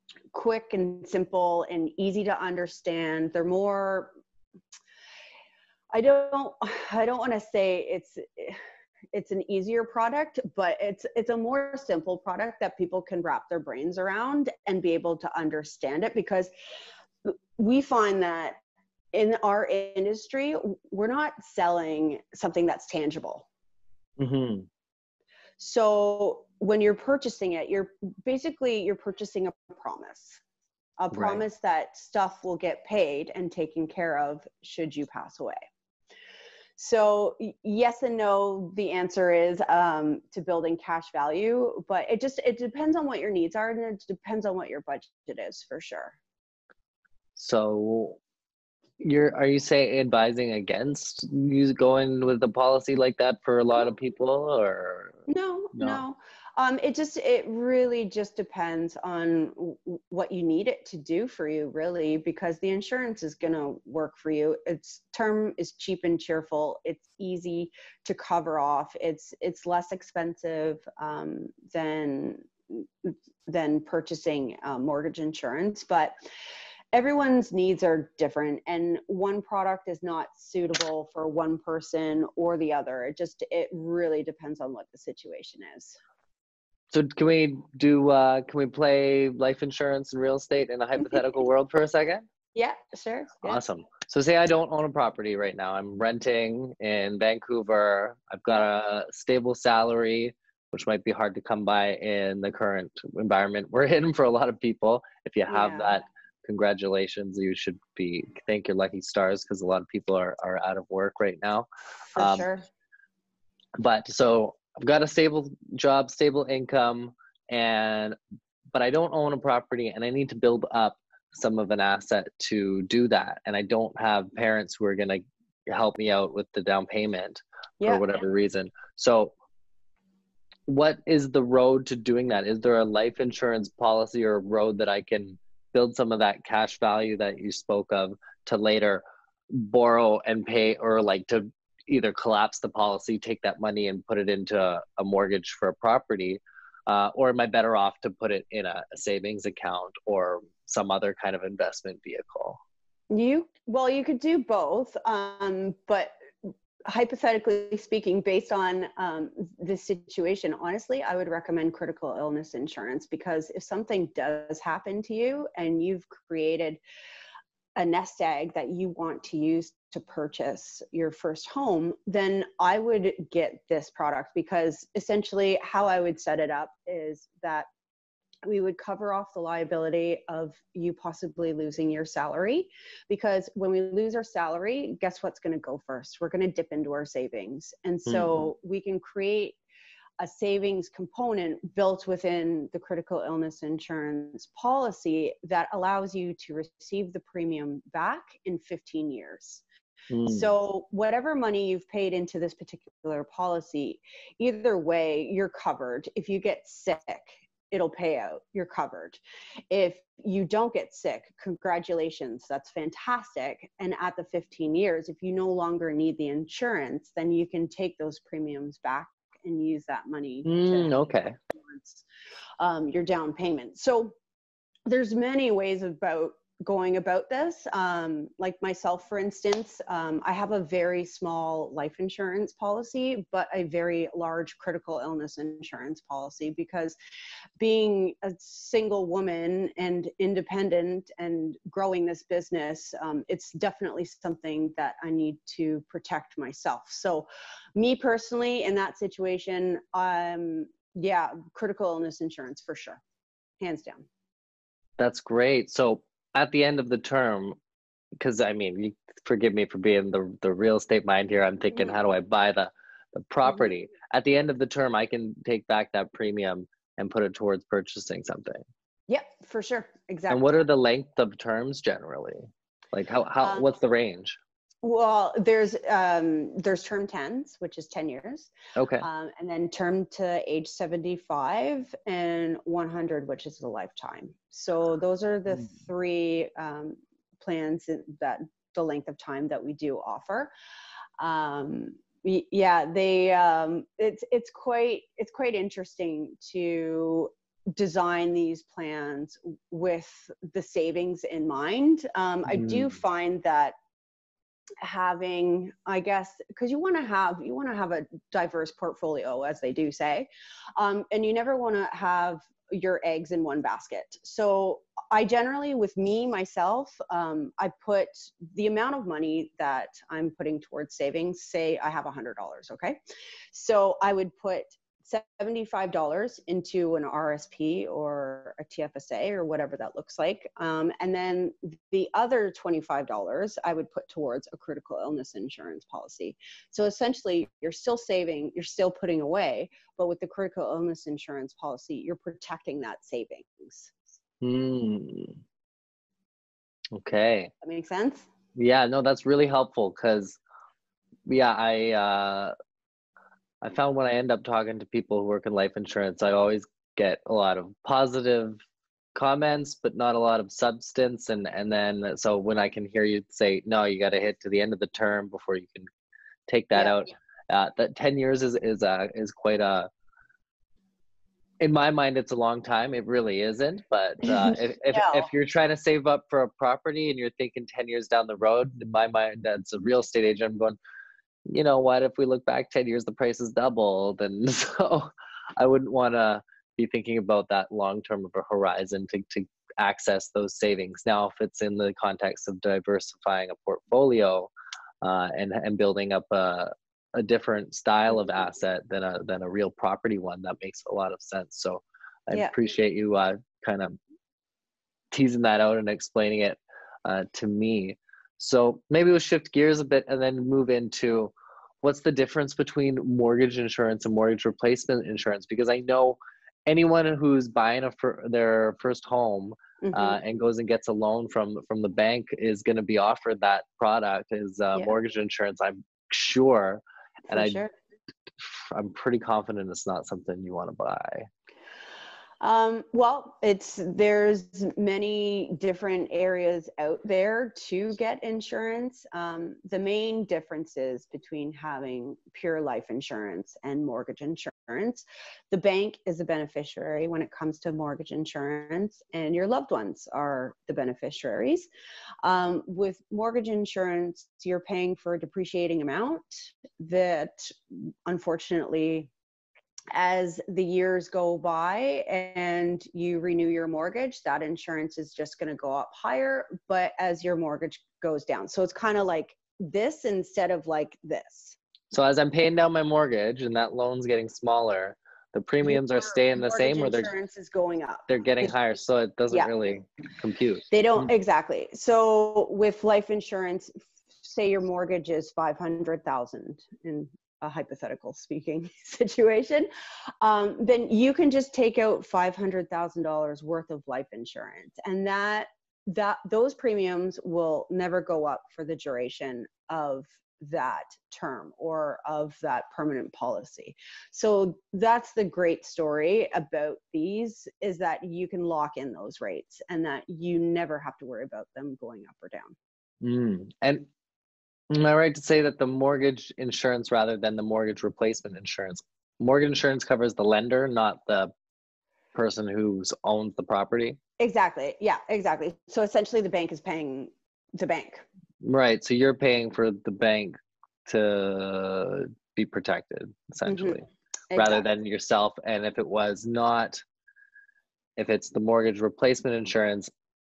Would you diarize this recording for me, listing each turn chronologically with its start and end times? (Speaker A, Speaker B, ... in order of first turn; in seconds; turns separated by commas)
Speaker A: 0.3-4.1, Speaker A: 5.9-8.6, Speaker A: 9.1-16.5, Speaker A: 17.2-18.6, Speaker A: 19.1-23.5, Speaker B: 24.2-24.7, Speaker A: 25.6-30.4, Speaker A: 31.0-35.6, Speaker B: 31.1-31.4, Speaker A: 36.8-46.2, Speaker B: 47.4-48.2, Speaker B: 49.0-55.2, Speaker A: 55.3-76.2, Speaker B: 55.8-56.0, Speaker A: 76.9-86.0, Speaker B: 86.9-92.3, Speaker A: 92.5-93.6, Speaker B: 93.4-112.5, Speaker A: 105.5-106.0, Speaker A: 112.1-112.7, Speaker B: 113.8-118.2, Speaker B: 118.7-129.3, Speaker B: 130.7-152.6, Speaker A: 153.1-166.8, Speaker A: 167.8-177.7, Speaker A: 178.4-189.6, Speaker B: 188.1-188.5, Speaker A: 190.2-199.6, Speaker B: 200.1-200.5, Speaker A: 200.3-209.2, Speaker A: 209.7-221.0, Speaker B: 220.4-221.4, Speaker A: 221.7-222.0, Speaker A: 222.6-224.2, Speaker A: 224.9-237.0, Speaker A: 237.6-253.0, Speaker A: 253.6-254.1, Speaker B: 255.0-257.6, Speaker B: 258.2-268.6, Speaker A: 261.7-262.0, Speaker A: 263.5-263.7, Speaker A: 269.1-270.5, Speaker B: 270.3-274.4, Speaker A: 273.4-273.7, Speaker A: 274.8-290.5, Speaker B: 278.8-279.1, Speaker A: 291.2-303.8, Speaker B: 302.5-302.9, Speaker A: 304.8-323.0, Speaker A: 323.5-343.9, Speaker B: 344.4-345.4, Speaker B: 346.9-347.5, Speaker A: 347.6-348.3, Speaker B: 348.6-350.4, Speaker B: 351.3-352.5, Speaker B: 353.6-358.6, Speaker B: 359.1-365.9, Speaker B: 366.5-369.9, Speaker B: 371.6-380.8, Speaker A: 374.2-375.3, Speaker B: 381.5-404.0, Speaker B: 405.1-427.6, Speaker A: 419.8-420.2, Speaker A: 427.3-427.7, Speaker B: 428.4-431.3, Speaker A: 432.4-451.7, Speaker A: 452.2-459.1, Speaker A: 459.9-471.6, Speaker B: 471.9-477.1, Speaker A: 475.6-478.5, Speaker B: 478.1-481.1, Speaker A: 480.7-489.7, Speaker A: 490.2-512.5, Speaker B: 513.0-513.9, Speaker B: 514.7-521.3, Speaker B: 522.1-524.0, Speaker A: 524.2-528.0, Speaker B: 528.4-536.8, Speaker A: 533.5-533.8, Speaker A: 534.3-534.6, Speaker B: 538.0-539.9